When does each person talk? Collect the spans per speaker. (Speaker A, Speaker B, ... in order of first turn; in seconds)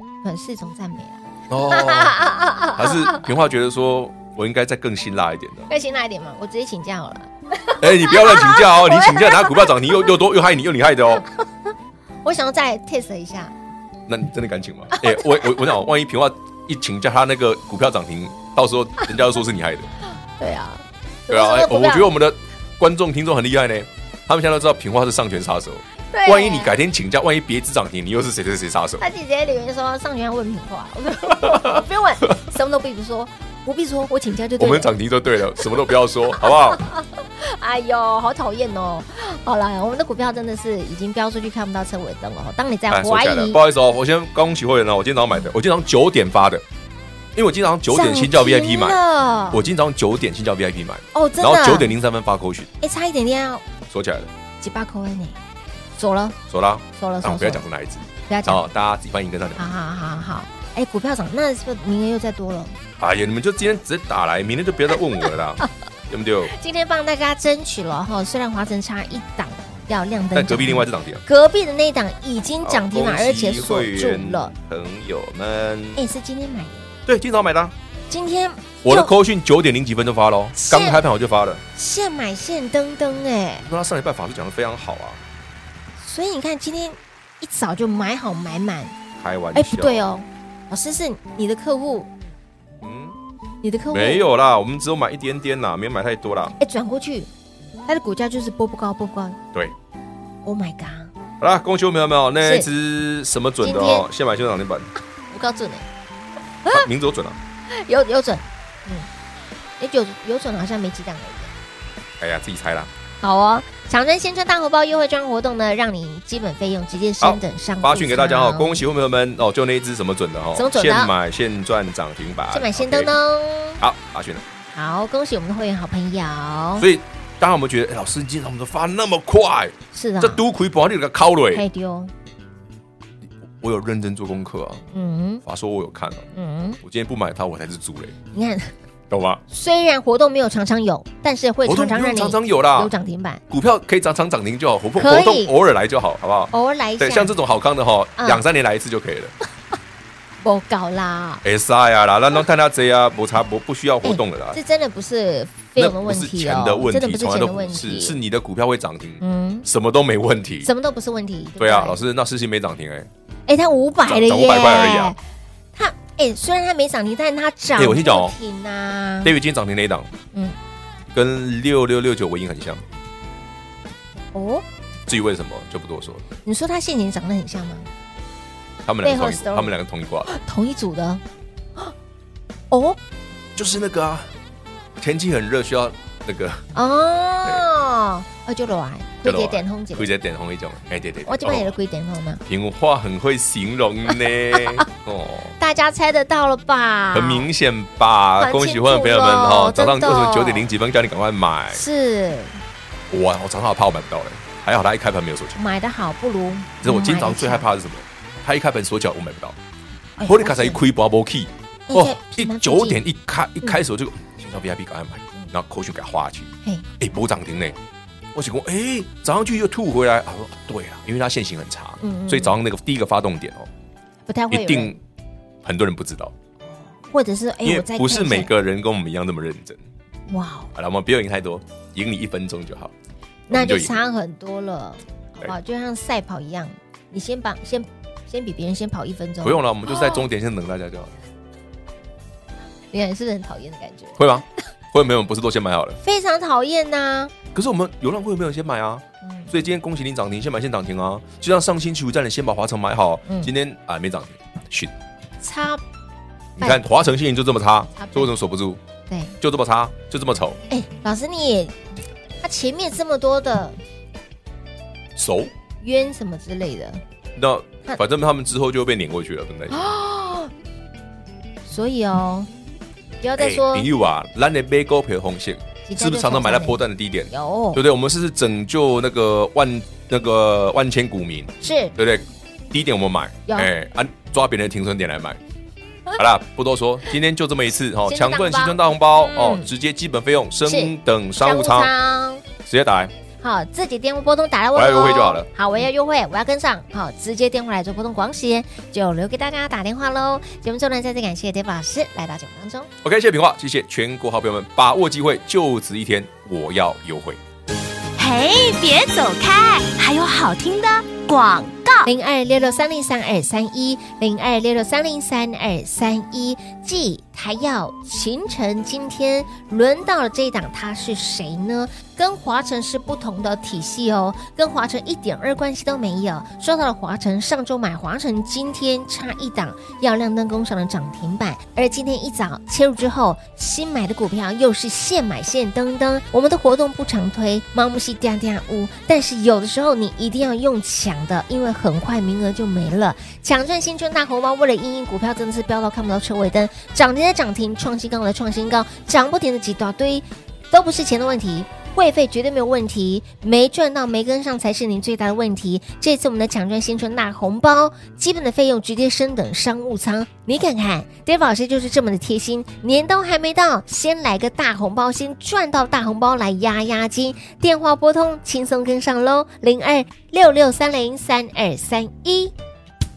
Speaker A: 0.2-3.2, 5.7-9.9, 12.2-13.5, 14.9-15.6, 20.4-22.1, 26.1-26.7, 29.0-34.9, 36.3-43.6, 47.9-49.6, 51.1-51.9, 52.8-53.6, 54.6-55.4, 56.0-56.4, 57.0-57.6, 58.3-58.6, 59.6-62.8, 66.5-74.5, 76.0-76.9, 78.1-79.1, 80.5-81.0, 81.7-83.7, 86.0-88.9, 89.5-92.1, 93.6-94.2, 96.6-97.3, 97.9-99.4, 100.4-101.1, 102.4-102.7, 103.6-104.1, 105.3-105.8, 107.7-109.1, 109.8-111.5, 113.2-118.8, 120.5-121.1, 122.5-123.8, 124.7-126.9, 129.9-130.4, 131.5-132.1, 134.9-135.4, 136.3-136.8, 138.3-138.7, 139.5-143.4, 145.0-145.5, 146.5-147.3, 148.2-148.4, 150.4-151.4, 154.0-158.2, 159.2-159.7, 160.6-162.0, 163.5-165.2, 165.7-169.3, 174.3-174.6, 176.4-177.9, 179.0-179.7, 180.2-181.2, 182.7-183.0, 186.7-190.1, 191.2-192.4, 194.5-194.8, 195.6-197.5, 198.4-200.7, 201.7-202.6, 205.6-207.7, 210.2-210.8, 211.9-213.0, 222.0-222.6, 224.3-224.9, 227.0-228.5, 230.3-230.7, 233.5-240.2, 242.9-244.2, 246.0-247.3, 249.2-249.5, 253.2-253.5, 255.4-255.8, 256.6-257.0, 257.9-258.3, 259.1-259.4, 260.7-261.7, 262.4-263.8, 265.8-267.0, 269.7-270.5, 271.6-272.5, 273.2-273.9, 275.9-277.8, 281.6-281.9, 288.0-289.7, 290.6-292.4, 293.4-302.9, 312.0-372.5
Speaker B: 1.5-5.7, 7.8-11.2, 14.1-19.9, 21.3-29.0, 31.3-31.8, 34.6-36.8, 42.9-46.6, 47.3-49.0, 49.5-52.7, 53.9-54.3, 56.5-59.7, 63.0-66.5, 70.3-71.2, 72.6-76.0, 77.1-77.7, 78.8-81.6, 83.6-85.2, 89.2-90.0, 92.8-93.2, 93.9-96.5, 101.4-104.9, 106.7-107.4, 112.2-112.9, 117.2-123.1, 123.8-124.4, 126.8-131.6, 133.6-134.8, 135.4-136.3, 136.8-138.1, 139.1-139.4, 141.7-142.9, 143.5-149.3, 151.4-154.6, 155.8-160.7, 161.6-163.1, 164.0-165.1, 167.8-168.3, 169.2-170.1, 171.1-172.8, 175.1-176.2, 178.8-180.3, 183.6-184.3, 185.0-186.6, 189.2-191.7, 192.4-195.5, 197.1-201.8, 203.1-205.6, 206.8-209.6, 210.2-217.8, 218.3-223.7, 224.5-225.0, 225.6-226.3, 227.6-229.8, 230.7-232.9, 233.5-234.0, 239.4-241.1, 244.2-246.0, 247.5-254.9, 256.6-258.8, 259.4-260.6, 265.1-265.5, 267.4-269.8, 273.4-285.4, 286.1-291.9, 292.6-293.1, 294.7-295.8, 303.0-307.4
Speaker C: 308.2-312.1